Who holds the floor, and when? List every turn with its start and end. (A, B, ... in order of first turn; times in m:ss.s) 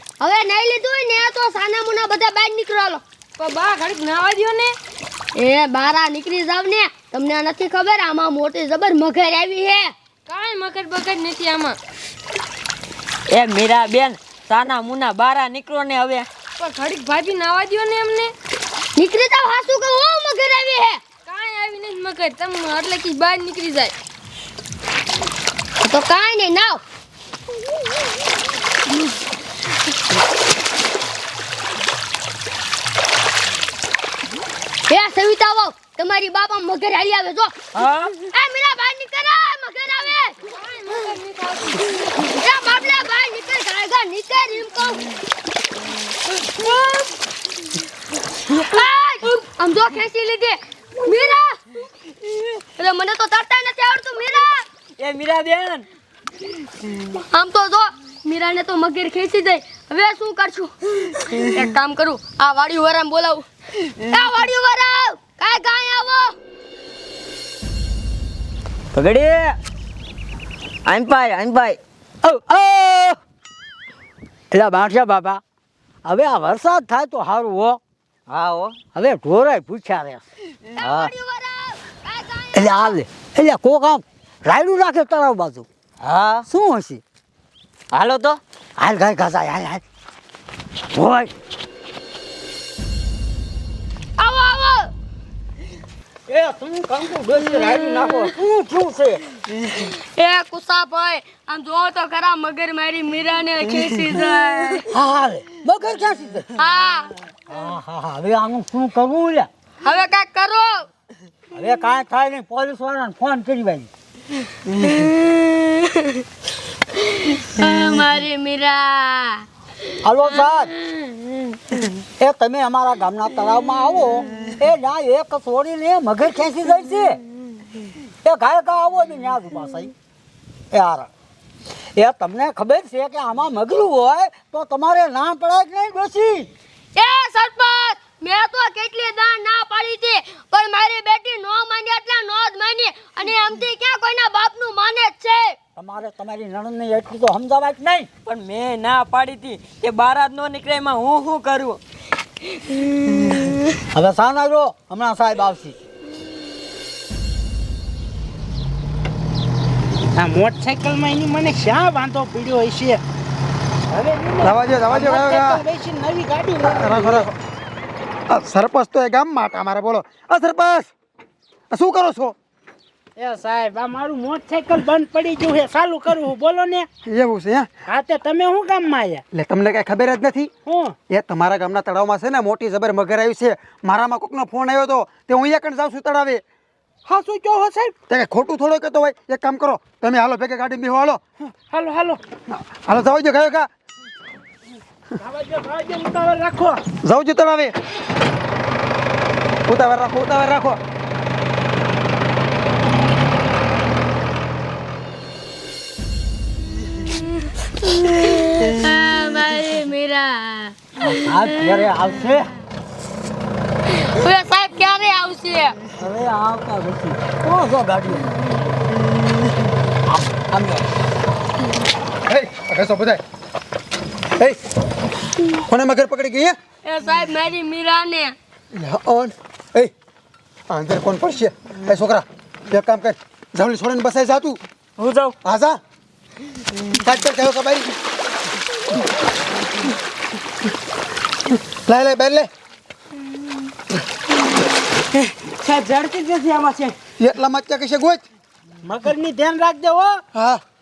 0:00.2-0:03.0 A
0:03.4-0:04.7 B
0:05.4-0:09.9 A
0:10.3-0:11.8 B
0:13.3-0:16.3 C
0:16.6-0:18.3 B
0:19.0-0:21.0 A
0:21.2-0:23.9 B
0:25.8-0:26.8 A
0:34.9-0:37.5 A
0:37.7-0:38.1 C
0:38.1-0:40.4 A
0:40.5-0:41.8 B
0:42.2-0:45.2 A
0:46.6-0:47.0 A
0:48.5-0:51.6 A
0:52.8-0:54.6 A
0:55.0-0:55.9 C
0:57.1-1:06.3 A
1:08.9-1:09.6 C
1:10.8-1:11.8 C
1:12.2-1:13.2 D
1:14.5-1:15.4 D
1:16.0-1:17.8 D
1:18.3-1:18.7 C
1:18.9-1:20.2 D
1:20.7-1:23.0 A
1:20.8-1:21.1 D
1:22.5-1:25.7 D
1:26.4-1:27.0 D
1:27.9-1:28.4 C
1:28.8-1:29.8 D
1:30.9-1:31.3 D
1:34.2-1:34.9 A
1:36.3-1:39.2 D
1:39.8-1:44.8 A
1:44.9-1:46.5 D
1:46.6-1:47.1 A
1:47.5-1:49.5 D
1:49.8-1:50.9 A
1:51.5-1:53.9 D
1:54.8-1:56.2 A
1:56.9-1:59.4 A
2:00.0-2:00.7 D
2:02.2-2:07.2 D
2:08.2-2:09.9 D
2:10.7-2:11.1 D
2:11.9-2:16.5 D
2:16.9-2:25.6 A
2:25.8-2:28.1 D
2:28.2-2:31.8 C
2:33.9-2:35.7 D
2:40.2-2:43.0 E
2:43.9-2:47.3 E
2:44.4-2:45.6 F
2:46.6-2:47.3 F
2:48.3-2:50.9 F
2:51.7-2:52.4 F
2:53.2-2:56.9 E
2:57.0-2:57.7 F
2:57.9-2:59.2 E
2:59.3-3:00.5 F
3:00.6-3:01.0 E
3:01.1-3:06.4 F
3:07.0-3:07.9 E
3:08.1-3:11.2 F
3:11.7-3:12.2 E
3:12.5-3:13.7 F
3:15.2-3:16.8 E
3:16.9-3:17.7 F
3:19.6-3:20.8 F
3:27.8-3:31.9 A
3:31.0-3:32.5 D
3:33.9-3:35.8 A
3:36.0-3:38.5 D
3:40.1-3:40.9 D
3:42.3-3:43.2 F
3:45.5-3:46.6 F
3:46.8-3:48.4 A
3:48.7-3:49.9 F
3:50.7-3:54.6 F
3:55.0-3:55.4 C
3:55.4-3:55.8 F
3:56.9-3:57.9 F
4:01.5-4:02.5 F
4:05.6-4:06.9 C
4:07.2-4:08.2 F
4:08.8-4:10.2 E
4:10.3-4:10.6 F